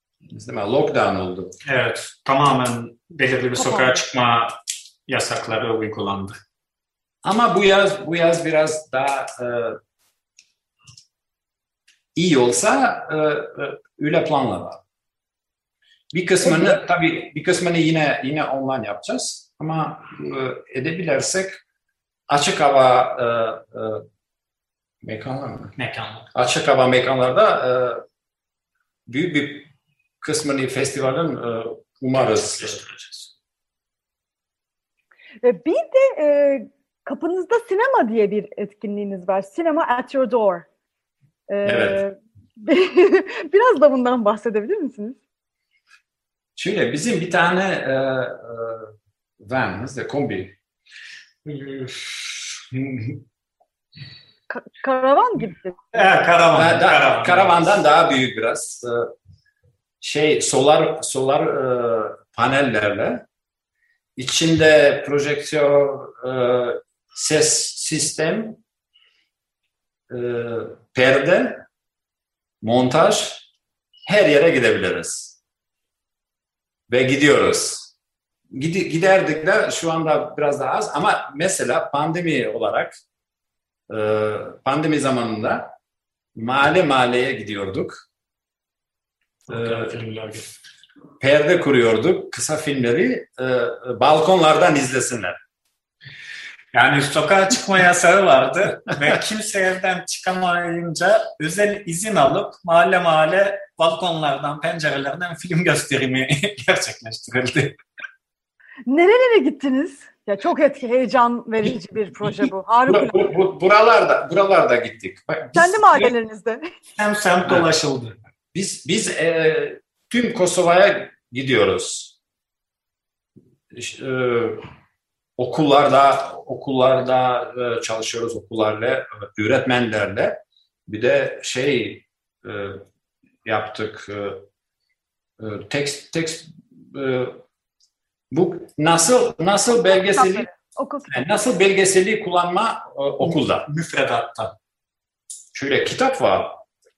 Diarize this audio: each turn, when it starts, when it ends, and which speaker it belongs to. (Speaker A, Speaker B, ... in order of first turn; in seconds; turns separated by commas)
Speaker A: 0.3-1.6, Speaker B: 1.6-4.6, Speaker C: 3.6-4.0, Speaker B: 5.1-6.4, Speaker A: 7.2-9.8, Speaker A: 12.2-14.8, Speaker A: 16.1-21.6, Speaker A: 22.3-24.0, Speaker A: 25.0-25.8, Speaker B: 25.8-26.3, Speaker A: 26.3-28.0, Speaker A: 29.1-29.7, Speaker A: 30.2-32.8, Speaker B: 32.6-33.3, Speaker C: 35.4-40.7, Speaker C: 41.5-45.2, Speaker A: 41.6-42.0, Speaker A: 46.6-50.6, Speaker B: 51.5-53.2, Speaker C: 54.5-56.0, Speaker B: 55.9-57.7, Speaker A: 56.5-59.1, Speaker A: 60.0-63.2, Speaker A: 64.2-68.6, Speaker A: 70.1-71.7, Speaker A: 72.6-73.5, Speaker A: 74.1-75.4, Speaker A: 76.9-77.9, Speaker A: 78.5-83.0, Speaker A: 83.9-85.8, Speaker A: 86.4-88.0, Speaker B: 89.5-90.5, Speaker A: 89.5-90.0, Speaker A: 91.2-95.4, Speaker B: 96.7-107.8, Speaker C: 108.9-113.3, Speaker A: 112.9-116.1, Speaker C: 115.5-116.7, Speaker B: 117.0-118.2, Speaker A: 118.5-122.2, Speaker A: 123.7-124.7, Speaker A: 125.4-132.8, Speaker A: 133.4-134.4, Speaker A: 135.4-137.4, Speaker A: 138.3-140.5, Speaker C: 139.9-141.2, Speaker A: 141.1-143.7, Speaker B: 143.7-144.5, Speaker A: 145.5-146.6